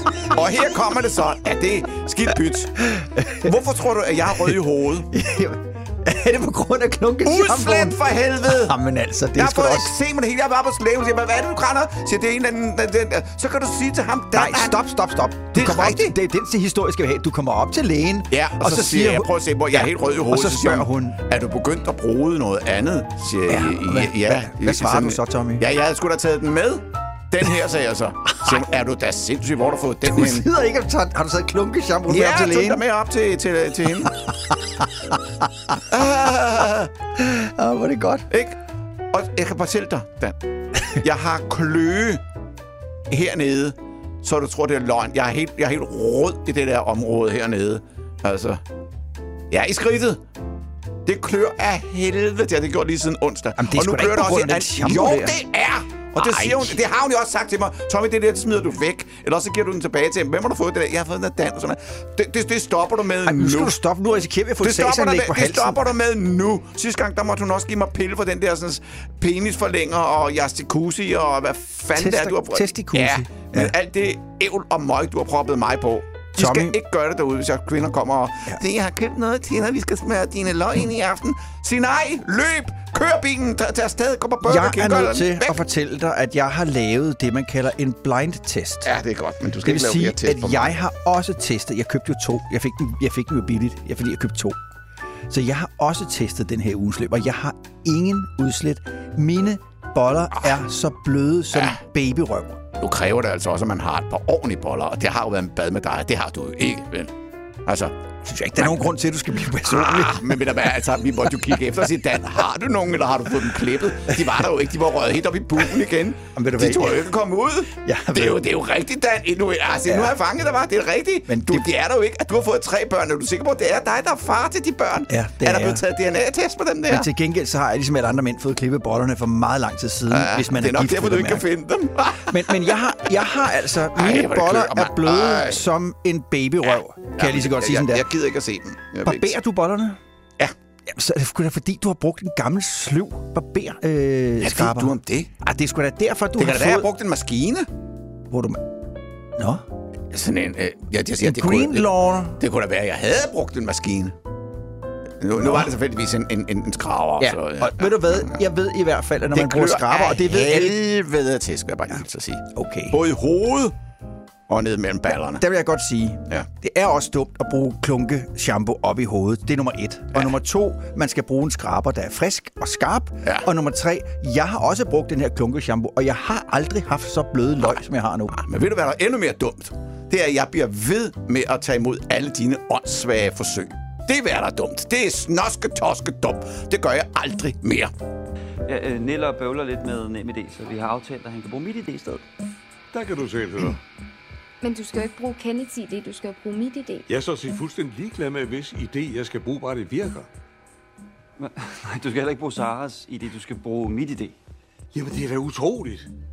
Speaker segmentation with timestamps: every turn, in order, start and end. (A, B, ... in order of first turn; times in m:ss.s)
0:00.2-0:05.1 A
0:02.9-0:03.5 B
0:05.1-0:09.9 B
0:07.2-0:08.8 A
0:09.3-0:14.8 A
0:14.3-0:21.2 B
0:15.5-0:16.2 A
0:18.3-0:30.5 A
0:23.5-0:25.6 B
0:30.0-0:32.8 B
0:32.1-0:34.2 A
0:35.9-0:36.9 A
0:37.2-0:38.3 B
0:38.3-0:38.6 A
0:39.1-0:40.4 A
0:40.9-0:42.2 A
0:43.1-0:48.6 A
0:49.5-0:50.2 A
0:51.0-1:03.8 A
0:53.6-0:55.4 B
0:56.2-0:56.8 B
1:03.2-1:05.9 B
1:04.6-1:25.6 A
1:12.0-1:13.7 B
1:16.4-1:16.8 B
1:24.4-1:28.9 B
1:28.8-1:30.8 A
1:29.6-1:34.6 B
1:35.3-1:42.6 B
1:41.5-1:41.8 A
1:42.8-1:47.1 A
1:47.7-1:47.9 A
1:48.2-1:50.6 B
1:48.6-1:48.9 A
1:49.6-2:07.1 A
1:56.4-1:57.1 B
1:57.8-1:58.4 B
1:59.9-2:00.2 B
2:01.3-2:01.7 B
2:05.1-2:05.8 B
2:06.9-2:11.5 B
2:10.1-2:12.8 A
2:12.3-2:18.1 B
2:14.0-2:15.6 A
2:16.6-2:19.4 A
2:19.0-2:20.0 B
2:20.9-2:26.9 B
2:24.4-2:25.3 A
2:26.4-2:27.7 A
2:28.3-2:28.6 B
2:29.4-2:29.6 B
2:30.1-2:34.2 A
2:31.2-2:32.4 B
2:35.2-2:38.4 A
2:35.4-2:35.7 B
2:37.2-2:40.8 B
2:39.3-2:43.8 A
2:42.6-2:43.0 B
2:44.5-2:45.4 A
2:45.1-2:58.4 B
2:57.6-3:07.9 A
3:08.7-3:12.2 C
3:12.9-3:13.8 D
3:14.6-3:17.1 E
3:17.1-3:20.3 D
3:21.4-3:24.4 C
3:24.9-3:26.1 D